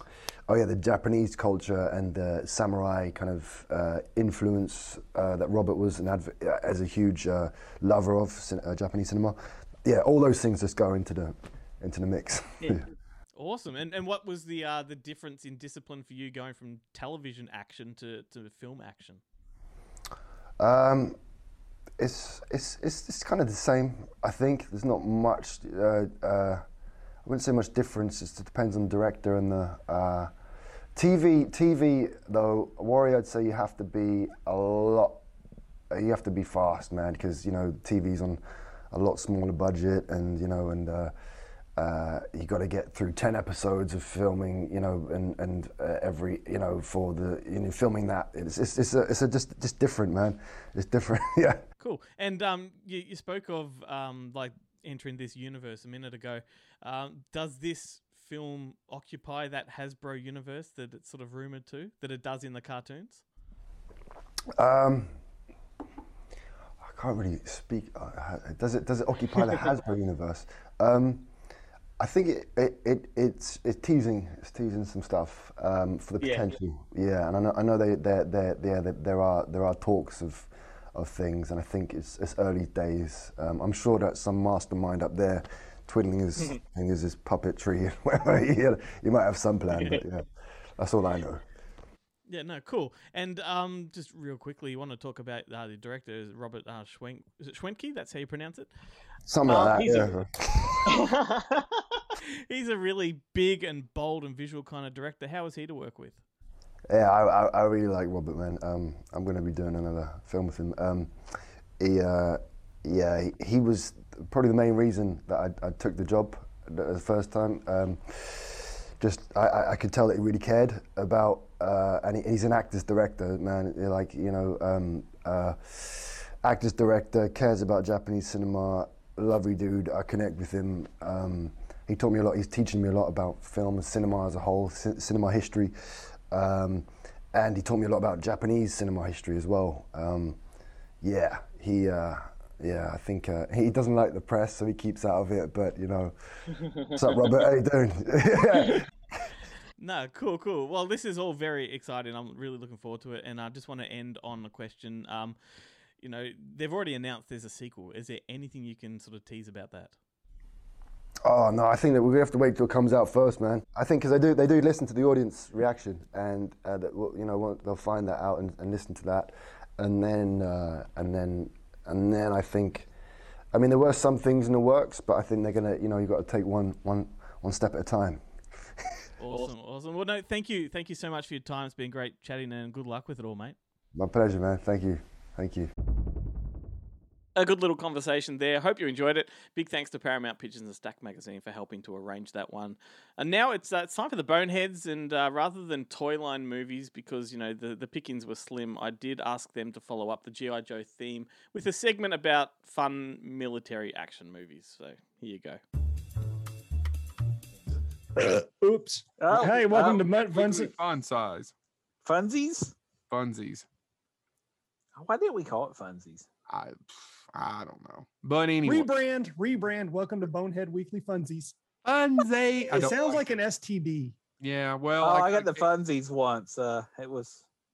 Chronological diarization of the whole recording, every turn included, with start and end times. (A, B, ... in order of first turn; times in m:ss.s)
0:00.5-0:12.8 A
0:13.3-0:19.2 B
0:20.6-0:21.2 A
0:22.0-0:26.6 A
0:27.2-0:30.3 A
0:30.9-0:35.2 A
0:35.9-0:41.1 A
0:41.8-0:51.6 A
0:51.8-1:03.2 B
1:04.6-1:05.1 A
1:06.8-1:11.2 A
1:12.0-1:30.2 A
1:16.2-1:16.5 B
1:30.8-1:31.4 A
1:32.3-1:38.7 B
1:39.2-1:41.1 A
1:39.5-1:40.1 B
1:42.5-1:46.2 B
1:46.9-1:51.1 A
1:51.8-2:15.7 A
2:16.3-2:20.4 A
2:21.0-2:26.1 A
2:26.9-2:28.9 A
2:29.8-2:35.4 B
2:36.0-2:39.9 B
2:41.2-2:52.9 A
2:53.5-2:58.3 A
2:59.2-3:03.6 B
3:03.9-3:05.7 A
3:07.4-3:25.6 B
3:28.2-3:30.7 C
3:29.2-3:30.0 D
3:29.8-3:31.5 E
3:32.0-3:32.7 D
3:33.1-3:33.6 E
3:34.9-3:36.3 D
3:36.5-3:38.9 E
3:38.6-3:41.5 C
3:41.8-3:43.4 E
3:42.7-3:44.1 C
3:44.4-3:45.7 E
3:45.0-3:47.4 D